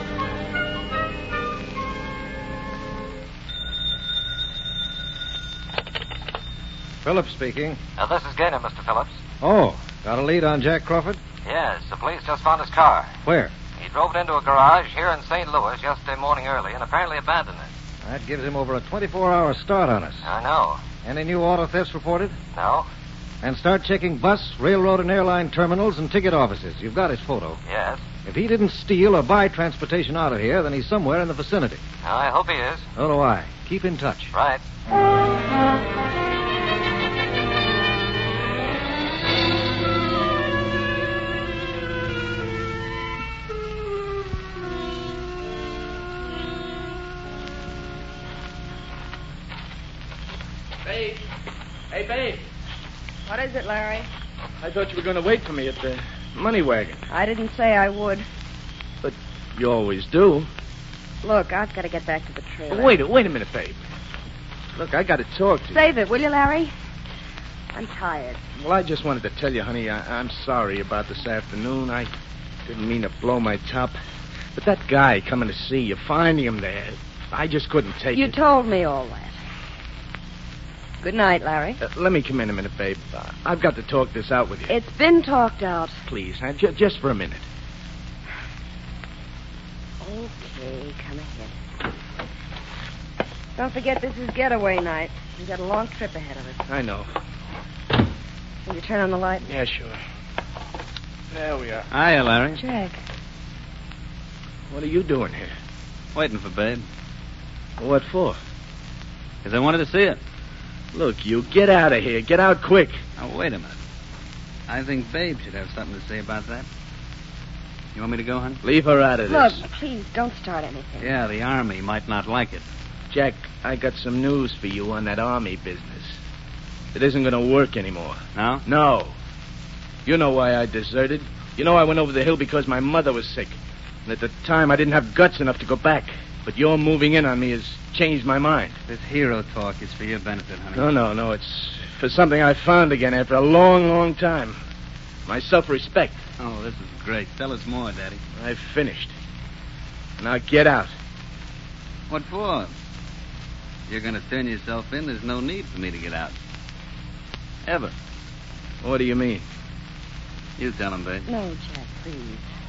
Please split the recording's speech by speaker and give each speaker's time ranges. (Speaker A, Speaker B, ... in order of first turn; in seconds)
Speaker A: 7.0-7.8, 9.4-11.2, 13.2-13.5, 18.0-20.2, 21.0-22.4, 23.4-27.6, 28.2-31.8, 33.0-34.3
Speaker B: 8.0-9.2, 11.4-13.2, 13.8-17.7, 20.2-20.8, 22.5-22.9, 27.6-28.0, 32.0-32.9, 34.3-34.6
Speaker C: 50.8-51.2, 51.9-52.5, 54.6-57.0, 59.0-60.5, 62.7-63.8, 64.7-65.8, 68.6-72.1, 72.7-74.0, 74.5-78.3, 81.8-84.7, 86.1-87.4, 96.7-97.1, 99.4-100.0, 101.3-101.9, 104.7-105.5, 107.8-108.4, 110.9-113.0, 118.6-119.6, 123.1-126.1, 126.9-129.1, 130.1-138.7, 140.7-144.6, 145.3-146.2, 148.4-149.1, 150.2-150.9, 158.8-159.4
Speaker D: 53.3-54.1, 57.1-58.2, 61.2-63.0, 65.7-66.7, 67.7-68.4, 78.1-79.3, 81.0-81.8, 84.7-86.0, 90.0-91.5, 93.6-96.6, 98.7-99.5, 102.6-103.0, 119.3-121.1, 161.3-162.4
Speaker E: 101.9-102.6, 106.1-106.8, 109.4-110.2, 113.2-113.7, 114.7-116.7, 117.9-118.6, 121.0-122.6, 128.3-128.6, 138.9-140.9, 146.4-148.2, 152.1-152.7, 153.9-156.3, 157.7-157.9, 160.6-161.3